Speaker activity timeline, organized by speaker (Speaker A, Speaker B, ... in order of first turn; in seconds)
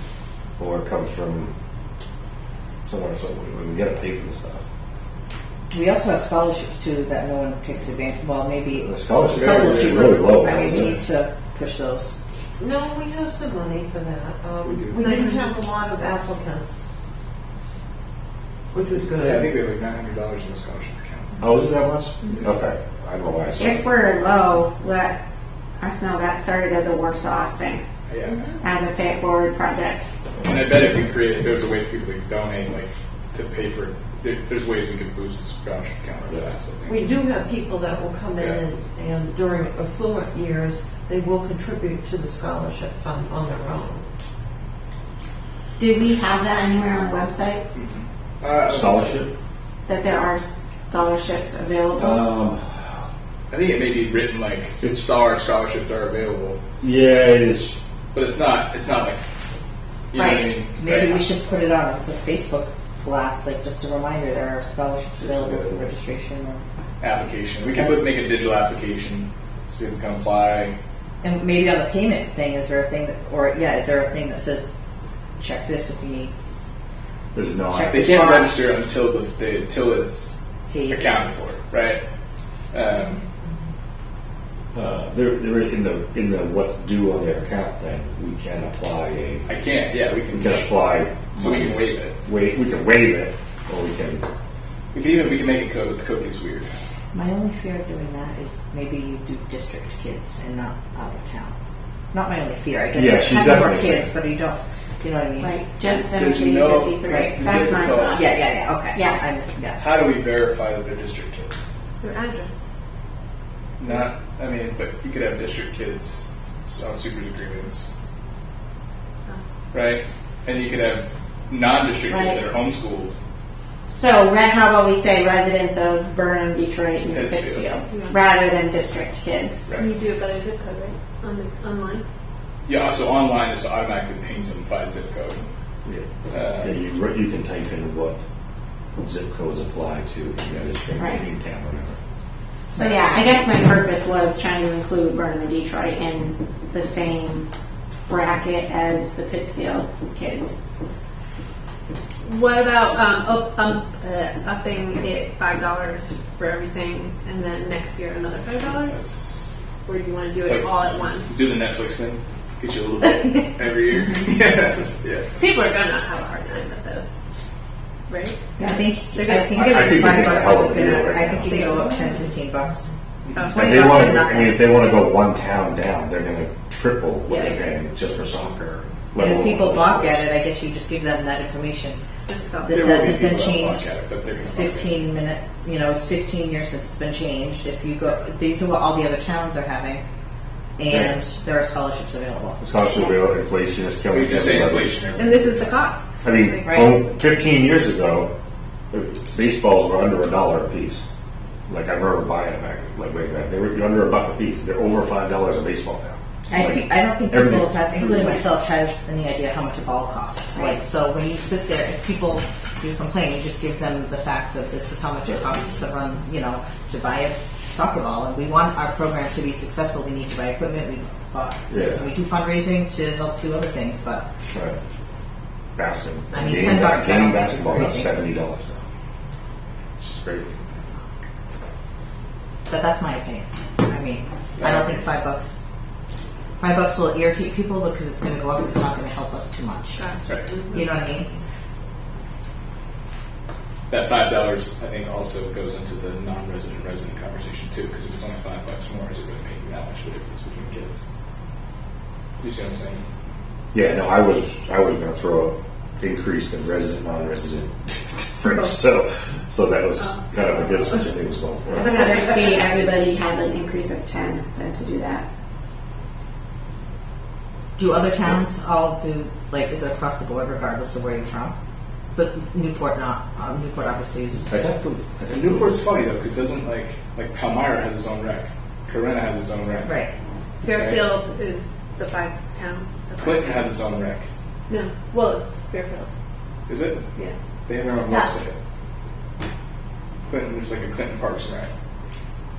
Speaker A: 0.6-1.5, 2.9-4.6, 8.7-11.0, 21.4-23.8, 48.6-49.3, 52.0-52.8, 56.8-57.8, 77.3-78.1, 84.7-89.5, 90.3-94.2, 102.9-104.1, 135.8-138.2, 139.0-142.0, 169.4-171.7, 173.5-180.2, 190.9-191.2, 192.6-194.9, 196.2-198.3, 198.9-201.0, 201.7-208.4, 221.7-222.1, 224.5-224.8, 225.8-228.8, 230.0-230.9, 253.7-262.0, 274.5-275.8
Speaker B: 5.7-12.1, 60.2-66.6, 71.2-74.7, 75.4-76.3, 77.7-78.7, 80.7-81.1, 97.1-101.5, 102.1-105.5, 107.1-107.4, 108.0-109.8, 142.7-143.2, 168.6-172.9, 173.5-174.7, 179.2-182.0, 182.6-183.9, 184.5-190.0, 190.8-192.6, 196.6-197.0, 206.5-224.3, 226.3-228.2, 232.7-235.6, 236.6-240.0, 240.7-241.3, 267.8-271.5, 272.1-274.4
Speaker C: 9.3-10.1, 14.6-15.1, 19.2-21.4, 28.1-28.4, 30.4-37.0, 47.7-49.2, 53.5-56.6, 58.1-59.2, 60.1-61.3, 65.2-65.8, 67.0-70.8, 77.9-80.3, 80.9-82.0, 82.7-83.2, 89.5-92.2, 94.9-96.7, 105.9-108.3, 109.8-111.7, 113.8-117.9, 119.7-123.1, 127.1-127.7, 132.7-135.5, 136.3-136.7, 158.8-159.3, 161.2-165.4, 182.7-185.0, 194.1-195.8, 234.6-235.0, 240.3-240.5, 243.9-251.0, 252.4-253.0, 275.3-279.9, 280.7-281.0, 283.2-284.3, 286.7-287.1, 287.7-288.6, 290.2-291.7
Speaker D: 12.6-16.8, 18.7-19.6, 36.8-44.0, 171.9-172.2
Speaker E: 23.6-25.2, 25.8-27.8, 28.6-30.1, 45.8-47.6, 49.9-52.2, 105.4-108.3, 108.9-109.2, 122.1-122.4, 123.9-129.7, 141.0-141.2, 142.7-147.5, 148.1-150.6, 261.7-265.2
Speaker F: 112.0-112.5, 127.8-128.2, 129.8-132.0, 152.2-159.0, 159.8-161.3, 165.3-167.1, 168.1-168.6, 169.1-170.7, 171.4-172.1, 173.3-173.6, 177.3-177.6, 182.3-182.8, 195.2-196.7, 239.9-241.3, 261.8-262.6, 280.6-283.7, 284.7-286.1, 287.9-288.3